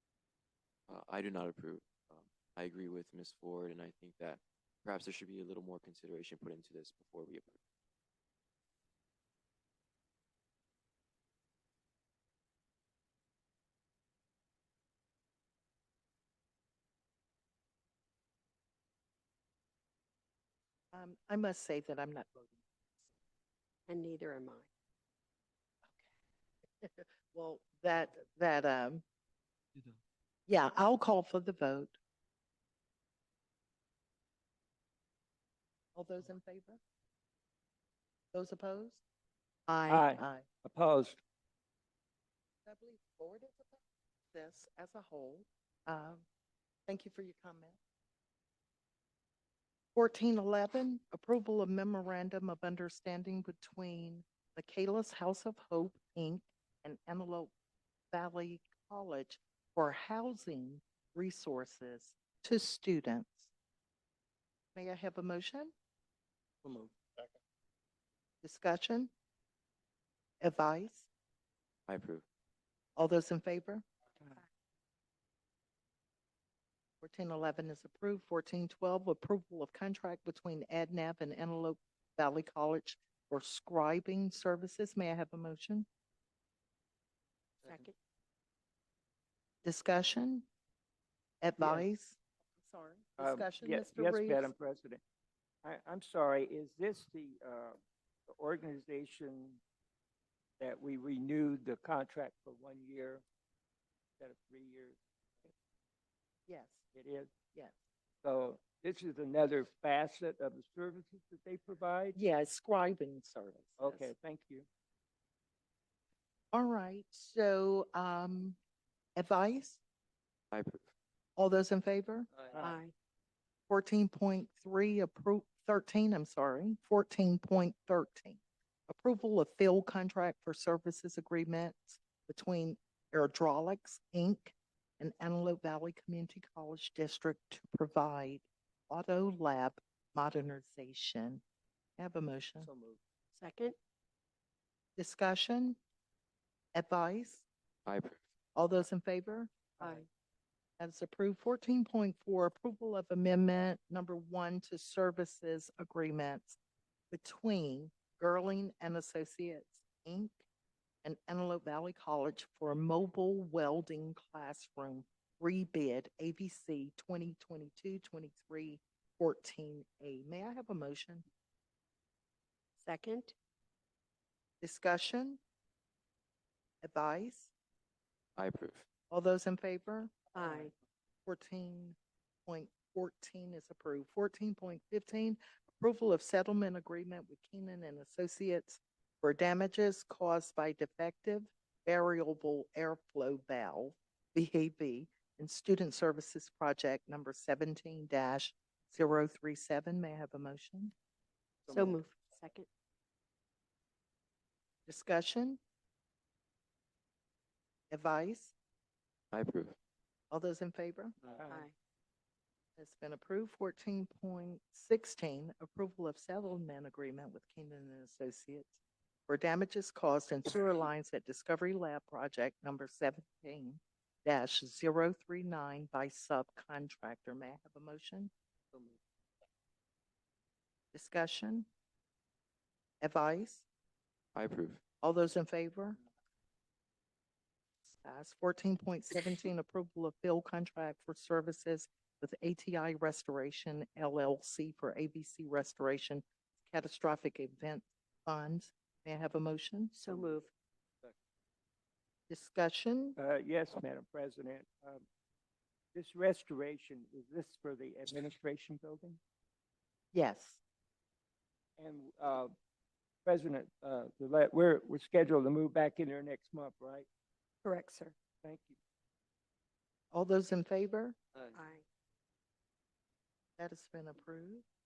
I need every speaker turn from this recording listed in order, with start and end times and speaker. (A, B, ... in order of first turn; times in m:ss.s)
0:00.9-0:07.6 A
0:20.9-0:22.6 B
0:23.9-0:24.7 C
0:25.8-0:26.1 B
0:26.8-0:29.0 B
0:30.5-0:32.0 B
0:36.0-0:36.8 B
0:38.3-0:39.0 B
0:39.7-0:40.4 B
0:39.9-0:41.2 D
0:42.7-0:43.8 B
0:44.3-0:46.2 B
0:46.9-0:47.8 B
0:50.0-0:57.5 B
0:58.1-1:03.5 B
1:04.8-1:05.7 B
1:08.4-1:09.1 B
1:10.4-1:11.1 B
1:11.9-1:12.2 A
1:13.0-1:13.9 B
1:17.0-1:25.9 B
1:27.6-1:27.9 C
1:29.6-1:30.5 B
1:31.4-1:34.5 B
1:31.6-1:31.9 D
1:33.2-1:35.0 D
1:35.6-1:39.6 D
1:40.6-1:43.2 D
1:44.2-1:45.5 D
1:46.5-1:46.8 B
1:46.9-1:47.3 D
1:48.2-1:52.2 D
1:52.1-1:54.1 B
1:53.8-1:54.7 D
1:56.5-1:58.6 B
1:59.2-1:59.8 B
2:00.5-2:00.8 A
2:01.4-2:02.3 B
2:02.6-2:02.9 C
2:03.7-2:21.4 B
2:22.0-2:22.7 B
2:22.6-2:23.0 D
2:23.3-2:23.8 C
2:25.0-2:25.8 B
2:26.7-2:27.4 B
2:27.8-2:28.2 A
2:28.6-2:29.6 B
2:29.8-2:30.0 C
2:30.8-2:36.6 B
2:37.1-2:40.4 B
2:41.0-2:51.2 B
2:52.8-2:53.3 C
2:54.6-2:55.4 B
2:56.8-2:57.5 B
2:58.4-2:58.8 A
2:59.1-3:00.3 B
3:00.3-3:00.7 C
3:01.2-3:20.9 B
3:21.7-3:22.7 C
3:24.9-3:25.6 B
3:27.9-3:28.5 B
3:29.3-3:29.8 A
3:30.3-3:31.1 B
3:31.3-3:31.7 D
3:31.5-3:31.7 C
3:32.8-3:38.8 B
3:39.3-3:48.3 B
3:50.9-3:51.7 B
3:53.0-3:53.7 B
3:54.3-3:54.8 A
3:55.0-3:56.0 B
3:58.0-4:10.0 B
4:09.9-4:10.5 C
4:12.3-4:13.2 B
4:13.2-4:15.0 D
4:15.9-4:19.2 D
4:20.1-4:20.6 B
4:21.8-4:22.6 D
4:23.2-4:27.1 D
4:27.6-4:28.2 C
4:28.4-4:28.8 D
4:30.1-4:31.2 B
4:31.5-4:31.8 C
4:33.6-4:34.6 B